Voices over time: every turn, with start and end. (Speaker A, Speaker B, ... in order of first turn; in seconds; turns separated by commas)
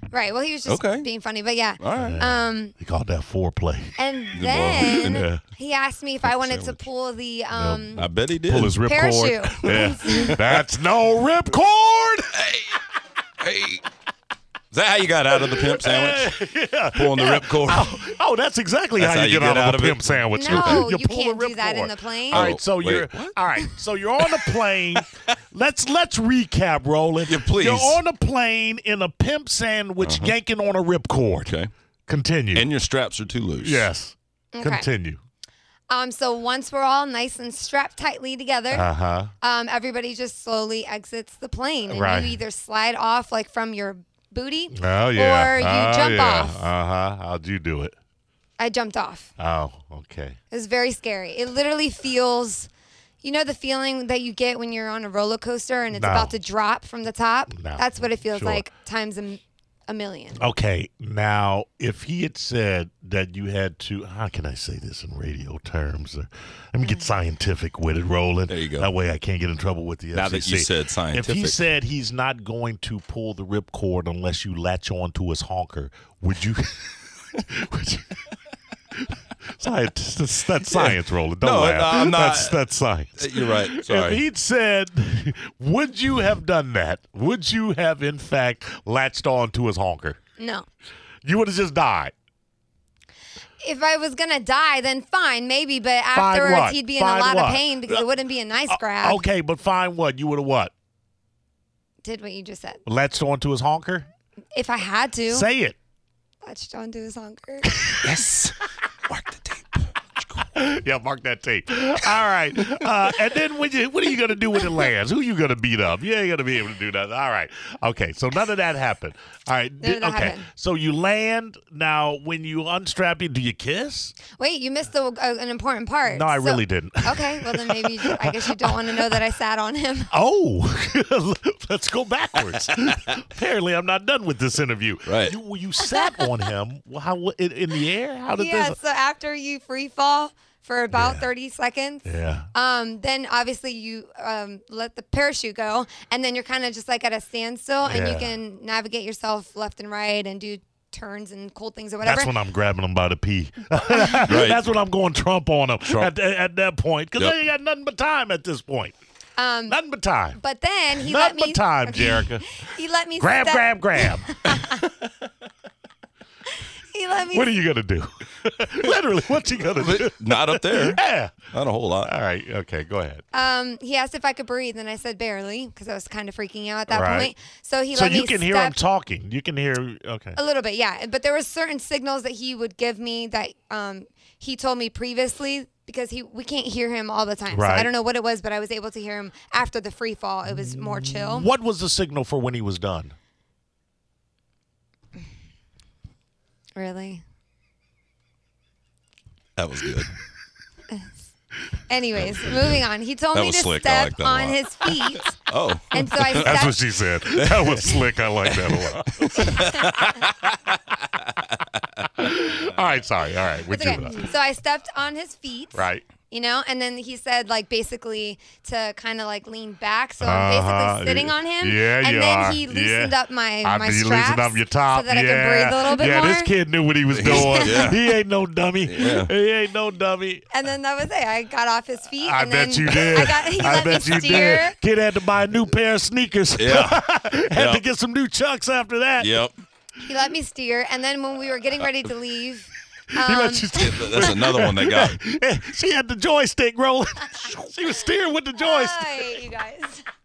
Speaker A: 0.1-2.7, Speaker B: 0.7-1.1, Speaker B: 1.8-2.2, Speaker C: 1.9-4.0, Speaker A: 4.0-8.1, Speaker B: 4.3-5.3, Speaker C: 4.7-5.4, Speaker B: 6.2-6.8, Speaker C: 7.5-12.3, Speaker B: 8.0-8.8, Speaker A: 8.8-10.4, Speaker B: 9.8-10.6, Speaker B: 12.3-12.8, Speaker B: 13.4-13.8, Speaker B: 14.7-16.3, Speaker C: 15.4-31.6, Speaker B: 16.9-18.0, Speaker B: 19.0-20.9, Speaker A: 20.3-22.5, Speaker B: 22.3-23.4, Speaker B: 24.2-25.0, Speaker B: 27.3-28.0, Speaker B: 30.0-30.3, Speaker C: 32.1-32.7, Speaker B: 32.5-33.9, Speaker C: 33.6-35.2, Speaker A: 34.5-34.9, Speaker A: 35.9-38.9, Speaker C: 38.7-39.3, Speaker A: 39.4-46.7, Speaker C: 41.9-42.4, Speaker C: 44.7-48.0, Speaker A: 48.6-49.3, Speaker C: 49.4-50.4, Speaker A: 50.5-52.7, Speaker A: 53.2-60.5, Speaker C: 55.9-56.4, Speaker C: 57.5-58.6, Speaker C: 60.4-78.2, Speaker A: 66.8-67.1, Speaker B: 68.5-68.9, Speaker B: 70.1-71.6, Speaker C: 79.6-90.2, Speaker B: 80.7-82.6, Speaker B: 83.2-84.2, Speaker A: 90.4-90.7, Speaker C: 91.2-92.1, Speaker A: 93.6-99.2, Speaker C: 96.1-98.1, Speaker C: 98.7-100.7, Speaker A: 102.0-102.8, Speaker C: 102.9-104.1, Speaker A: 104.5-105.5, Speaker C: 105.3-105.8, Speaker A: 106.4-107.8, Speaker B: 108.0-109.9, Speaker C: 110.5-124.2, Speaker A: 119.8-120.5, Speaker A: 124.3-130.1, Speaker C: 126.0-129.2, Speaker C: 130.1-138.8, Speaker B: 135.1-135.4, Speaker A: 135.9-136.3, Speaker A: 138.3-152.3, Speaker C: 140.9-141.3, Speaker C: 142.1-142.5, Speaker C: 147.8-148.3, Speaker C: 152.0-158.9, Speaker B: 154.3-154.6, Speaker A: 159.4-159.8, Speaker C: 159.7-160.4, Speaker A: 160.3-164.9, Speaker C: 161.0-162.4, Speaker C: 163.2-164.9, Speaker A: 166.9-167.6, Speaker C: 167.3-171.5, Speaker B: 169.7-171.0, Speaker B: 171.5-172.1, Speaker C: 172.0-173.2, Speaker A: 173.3-178.8, Speaker C: 176.9-177.3, Speaker C: 177.9-180.4, Speaker A: 180.4-191.5, Speaker C: 187.5-187.9, Speaker C: 190.5-193.1, Speaker A: 196.8-197.2, Speaker B: 199.6-200.1, Speaker A: 201.9-206.8, Speaker B: 202.2-202.8, Speaker B: 203.3-206.7, Speaker C: 206.3-210.0, Speaker B: 207.3-211.6, Speaker C: 212.2-214.3, Speaker A: 213.7-226.6, Speaker C: 215.7-216.1, Speaker C: 220.2-230.4, Speaker B: 227.2-228.0, Speaker A: 227.3-227.9, Speaker B: 228.8-229.3, Speaker A: 230.5-234.8, Speaker C: 232.2-239.4, Speaker B: 236.6-237.8, Speaker B: 239.2-239.6, Speaker A: 240.1-244.2, Speaker C: 243.2-249.4, Speaker B: 243.8-245.2, Speaker A: 248.6-250.1